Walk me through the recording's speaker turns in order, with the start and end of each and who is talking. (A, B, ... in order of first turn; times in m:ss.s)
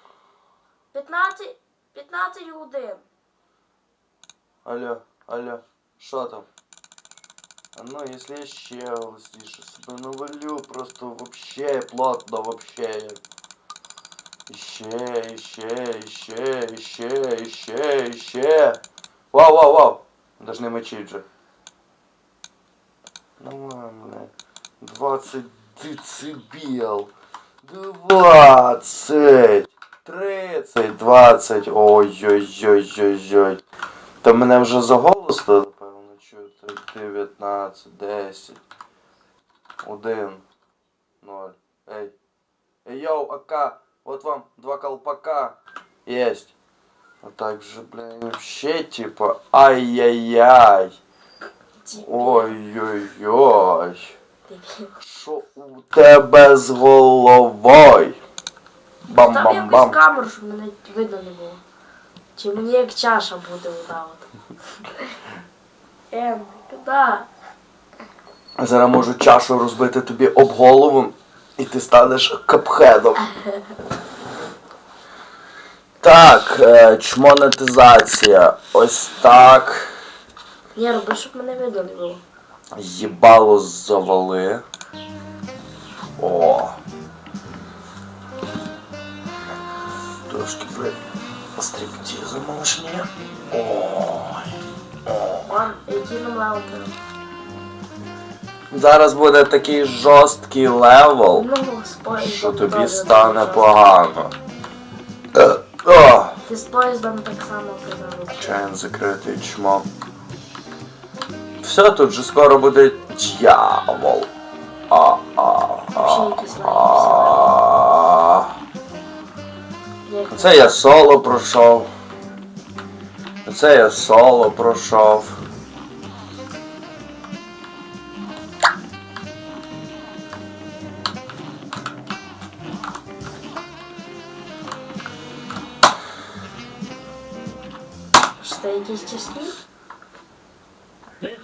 0:00.9-0:03.1 A
0:04.6-0:06.5 B
0:07.7-0:13.2 B
0:14.5-0:18.8 B
0:19.3-0:21.2 B
0:23.4-0:27.1 B
0:27.6-0:33.6 B
0:34.2-0:38.6 B
0:39.8-0:40.4 B
0:41.2-0:42.2 B
0:42.8-0:46.5 B
0:47.2-0:51.0 B
0:51.8-0:52.6 A
0:51.9-0:54.2 B
0:54.5-0:54.9 A
0:55.0-0:58.2 B
0:59.1-1:00.0 B
0:59.1-1:01.6 A
1:02.4-1:04.3 A
1:06.1-1:07.3 A
1:08.6-1:13.3 B
1:13.2-1:13.7 A
1:16.0-1:19.9 B
1:20.8-1:22.2 A
1:22.7-1:24.6 B
1:26.2-1:26.8 B
1:30.3-1:31.0 B
1:31.6-1:34.6 B
1:35.1-1:35.5 B
1:35.4-1:37.0 A
1:38.7-1:41.5 B
1:41.3-1:43.8 A
1:42.2-1:44.3 B
1:45.3-1:46.4 B
1:46.4-1:48.6 A
1:48.3-1:49.9 B
1:51.6-1:54.3 B
1:54.9-1:58.5 B
1:56.0-1:57.6 A
2:00.0-2:00.8 A
2:00.3-2:01.9 B
2:03.4-2:05.4 B
2:18.4-2:19.6 A